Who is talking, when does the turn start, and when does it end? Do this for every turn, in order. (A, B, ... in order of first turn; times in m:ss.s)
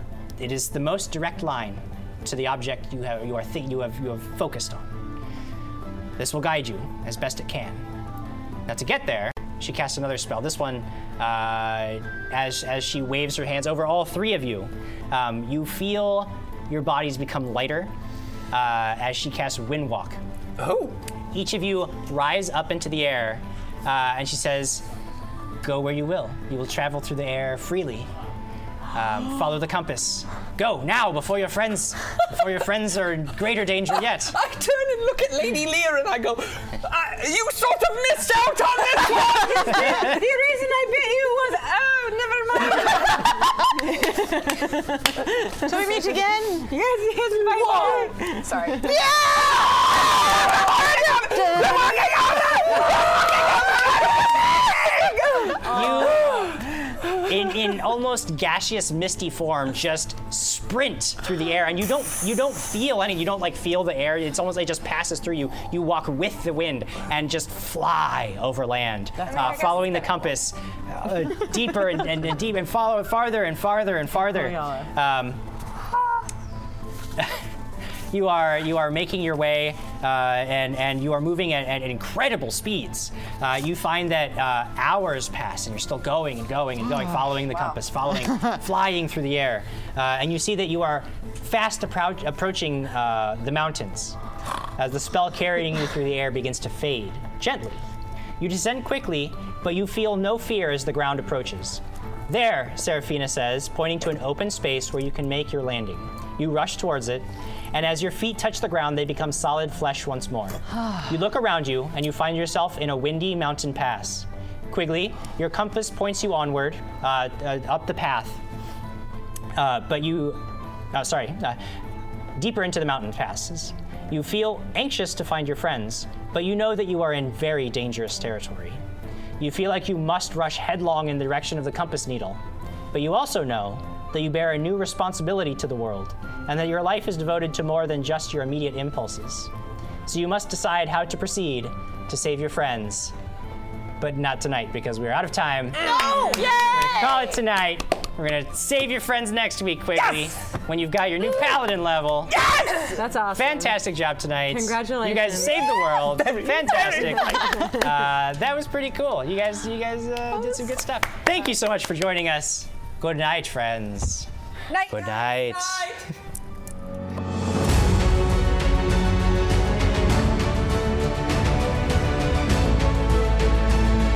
0:00.4-0:05.0 A
0:06.2-0:07.9 A
0:08.7-0:17.9 A
0:18.5-0:20.2 A
0:20.6-0:21.0 B
0:21.3-0:24.8 A
0:25.6-0:28.1 A
0:28.9-0:34.4 A
0:34.3-0:40.1 B
0:39.1-0:45.8 C
0:45.6-0:46.7 D
0:46.7-0:48.5 C
0:47.9-0:48.9 E
0:48.8-0:50.5 D
0:51.3-0:52.0 D
0:51.4-0:54.0 B
0:55.6-0:56.6 A
0:57.2-1:15.4 A
1:09.3-1:09.9 E
1:17.2-1:17.4 A
1:18.1-1:34.2 A
1:34.8-1:37.8 A
1:38.4-1:58.4 A
1:59.6-2:01.6 A
2:02.4-2:08.8 A
2:09.4-2:12.4 A
2:12.9-2:19.5 A
2:20.1-2:23.1 A
2:24.0-2:32.4 A
2:26.1-2:27.0 E
2:32.3-2:32.9 B
2:32.9-2:33.8 C
2:33.3-2:44.3 A
2:34.5-2:35.7 C
2:36.0-2:37.8 B
2:44.7-2:45.1 E
2:44.9-2:46.0 A
2:45.4-2:46.1 B